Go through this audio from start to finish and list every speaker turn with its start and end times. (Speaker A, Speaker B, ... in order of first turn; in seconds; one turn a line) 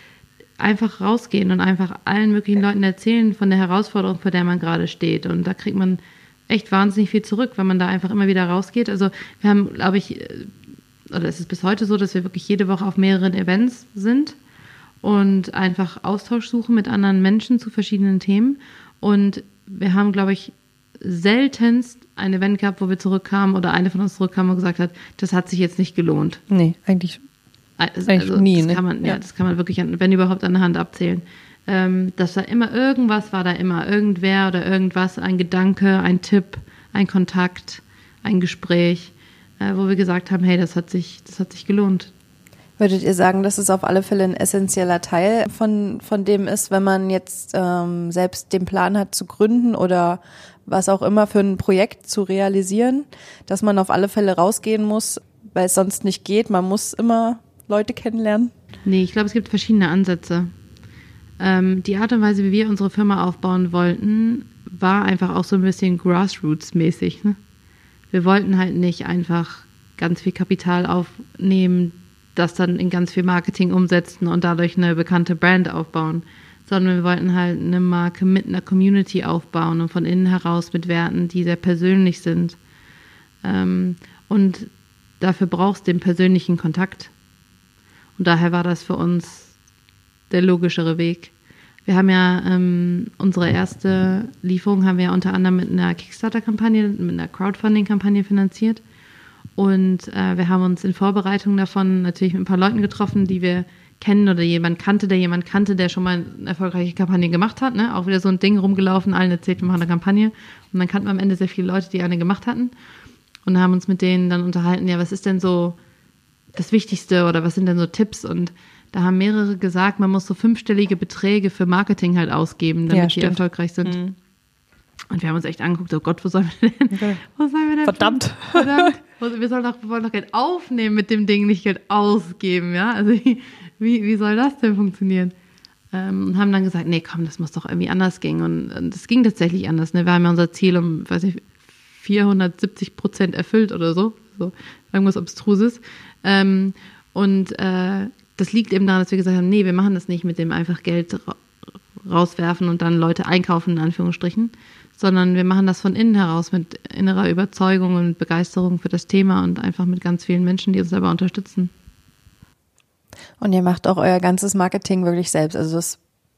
Speaker A: 0.6-10.5
Speaker A: 11.1-14.4
Speaker A: 15.0-26.4
Speaker B: 26.5-27.2
Speaker A: 27.8-42.1
Speaker B: 28.1-29.2
Speaker C: 42.8-58.5
Speaker A: 58.9-60.5
Speaker A: 61.4-67.4
Speaker A: 68.1-82.6
Speaker A: 83.4-87.1
Speaker A: 88.2-89.5
Speaker A: 90.3-91.3
Speaker A: 91.8-98.8
Speaker A: 99.6-112.7
Speaker A: 113.5-115.8
Speaker A: 116.5-124.0
Speaker B: 122.9-124.2
Speaker A: 125.1-135.3
Speaker B: 126.9-127.2
Speaker B: 127.8-128.9
Speaker A: 135.9-161.7
Speaker C: 163.4-166.0